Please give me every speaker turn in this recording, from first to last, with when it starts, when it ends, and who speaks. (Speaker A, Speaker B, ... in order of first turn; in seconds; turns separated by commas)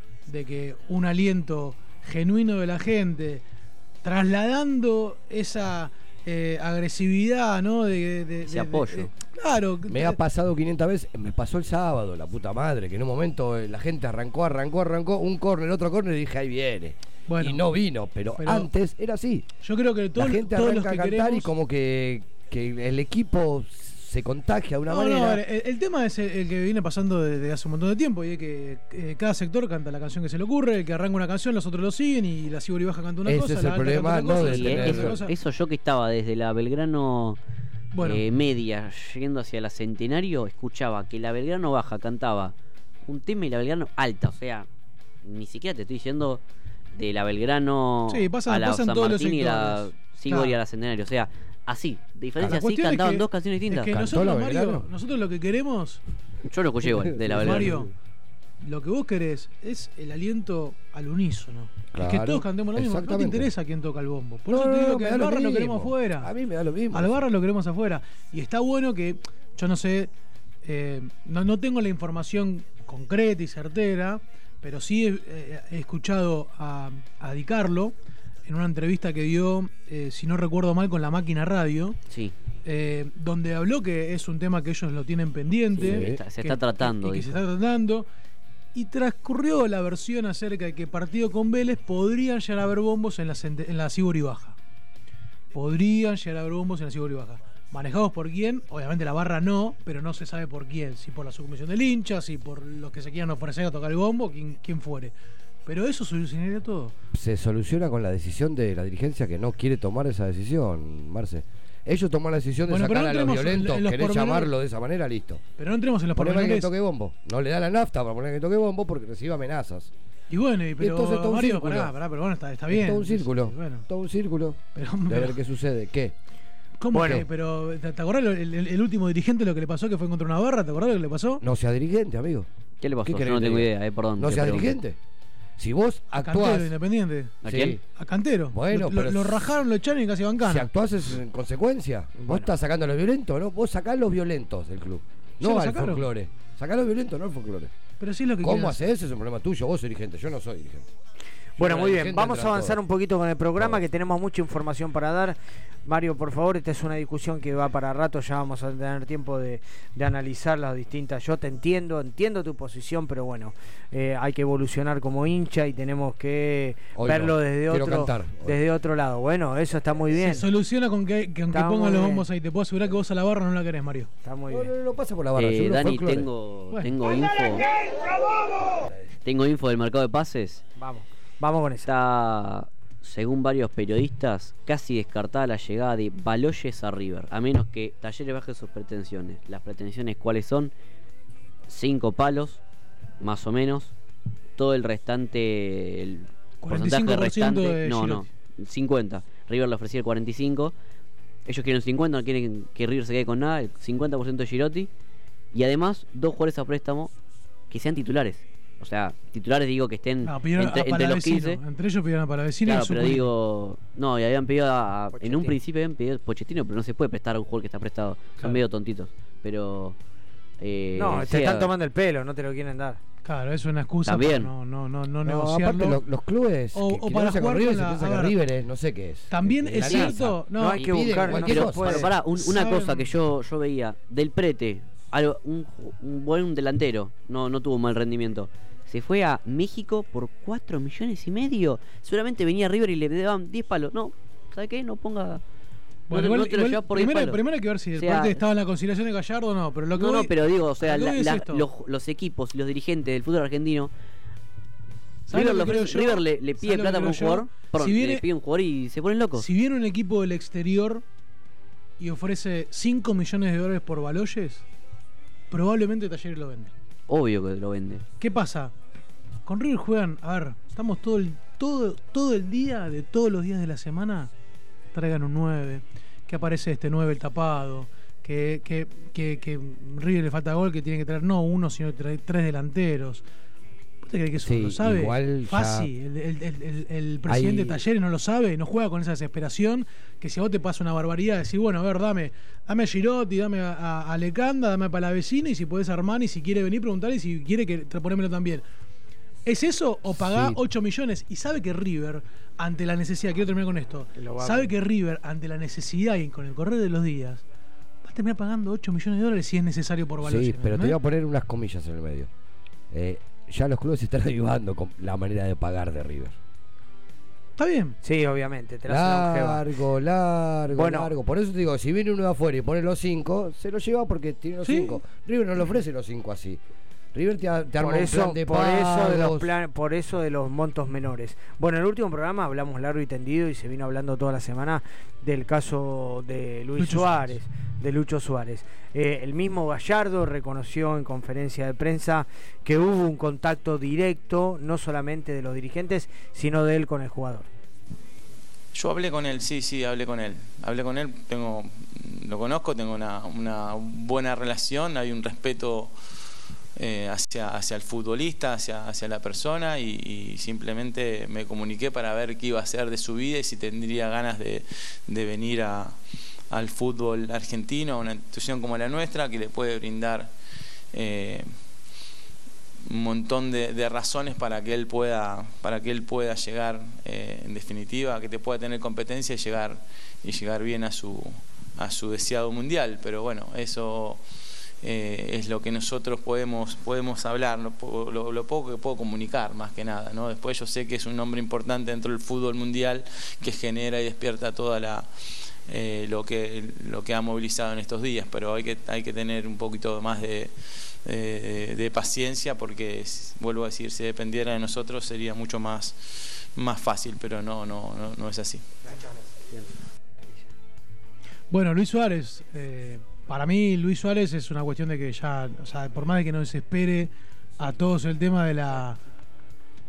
Speaker A: 0.3-3.4, Speaker A: 4.0-10.2, Speaker B: 8.5-9.1, Speaker C: 9.9-19.5, Speaker A: 17.3-17.6, Speaker A: 18.4-18.7, Speaker A: 19.6-21.5, Speaker C: 20.2-25.4, Speaker A: 24.9-35.3, Speaker C: 33.2-35.2, Speaker B: 34.4-37.4, Speaker A: 38.0-38.2, Speaker B: 38.0-42.5, Speaker B: 43.0-44.7, Speaker B: 45.2-46.4, Speaker B: 46.9-54.1, Speaker A: 48.1-50.6, Speaker A: 52.4-56.0, Speaker C: 54.1-54.9, Speaker B: 56.5-57.8, Speaker C: 56.9-57.8, Speaker A: 57.3-57.9, Speaker A: 58.6-66.3, Speaker C: 61.9-63.5, Speaker C: 64.5-67.2, Speaker A: 66.9-70.1, Speaker A: 70.6-77.9, Speaker A: 78.5-82.0, Speaker B: 82.1-82.3, Speaker A: 82.7-88.1, Speaker B: 85.8-87.4, Speaker C: 85.8-86.2, Speaker A: 88.7-94.6, Speaker A: 95.5-107.0, Speaker C: 107.1-115.4, Speaker A: 112.7-114.5, Speaker A: 115.6-116.7, Speaker C: 116.2-119.9, Speaker A: 120.3-123.9, Speaker C: 120.8-121.9, Speaker C: 122.7-126.1, Speaker A: 124.8-125.4, Speaker A: 126.8-131.4, Speaker D: 126.9-127.2, Speaker C: 127.0-127.3, Speaker C: 131.4-132.5, Speaker B: 132.8-134.8, Speaker C: 133.1-135.0, Speaker C: 135.6-136.7, Speaker A: 136.2-140.7, Speaker B: 137.4-137.8, Speaker C: 137.4-137.8, Speaker C: 138.5-139.4, Speaker C: 140.4-147.7, Speaker A: 145.4-146.1, Speaker A: 148.0-148.8, Speaker C: 148.4-150.9, Speaker C: 151.6-152.8, Speaker D: 151.6-170.5, Speaker C: 153.6-153.8, Speaker C: 167.0-168.6, Speaker A: 170.2-174.1, Speaker D: 171.5-172.2, Speaker D: 174.2-174.7, Speaker C: 174.5-176.3, Speaker B: 175.4-177.7, Speaker B: 179.2-180.6, Speaker D: 180.8-181.9, Speaker B: 181.8-190.7, Speaker B: 191.7-192.6, Speaker B: 193.2-193.9, Speaker B: 194.6-200.7, Speaker A: 196.6-198.3, Speaker B: 201.5-204.9, Speaker B: 205.5-207.1, Speaker B: 207.7-211.6, Speaker A: 210.2-213.3, Speaker B: 212.6-220.0, Speaker D: 215.2-215.6, Speaker B: 220.6-221.7, Speaker D: 221.0-223.0, Speaker A: 223.2-226.0, Speaker B: 224.1-224.5, Speaker C: 225.2-232.0, Speaker A: 226.7-228.3, Speaker A: 229.3-233.1, Speaker B: 229.8-230.2, Speaker D: 230.5-232.1, Speaker B: 231.4-245.4, Speaker A: 246.1-251.7, Speaker B: 246.1-247.4, Speaker B: 248.0-248.4, Speaker B: 249.9-253.9, Speaker A: 255.3-258.2, Speaker B: 255.3-259.5, Speaker A: 259.4-261.0, Speaker A: 262.0-264.6, Speaker A: 265.5-266.7, Speaker B: 267.1-268.0, Speaker A: 268.2-268.7, Speaker A: 269.5-274.3, Speaker A: 274.9-283.2, Speaker A: 284.0-298.6, Speaker C: 284.4-285.9, Speaker C: 287.3-287.8, Speaker A: 299.4-307.4, Speaker C: 300.2-300.6, Speaker D: 304.1-304.7, Speaker A: 308.0-311.0, Speaker C: 310.2-312.3, Speaker C: 312.9-316.4, Speaker A: 317.6-318.0, Speaker D: 318.0-319.6, Speaker C: 318.9-326.6, Speaker D: 320.7-321.1, Speaker A: 324.6-325.0, Speaker C: 327.1-329.5, Speaker D: 327.8-347.5, Speaker A: 336.8-337.4, Speaker E: 348.7-355.9, Speaker E: 356.8-366.0, Speaker E: 366.5-370.3, Speaker E: 370.9-371.5, Speaker E: 372.9-384.2, Speaker E: 384.8-395.1, Speaker E: 395.7-400.5, Speaker E: 401.0-408.6, Speaker A: 411.5-419.0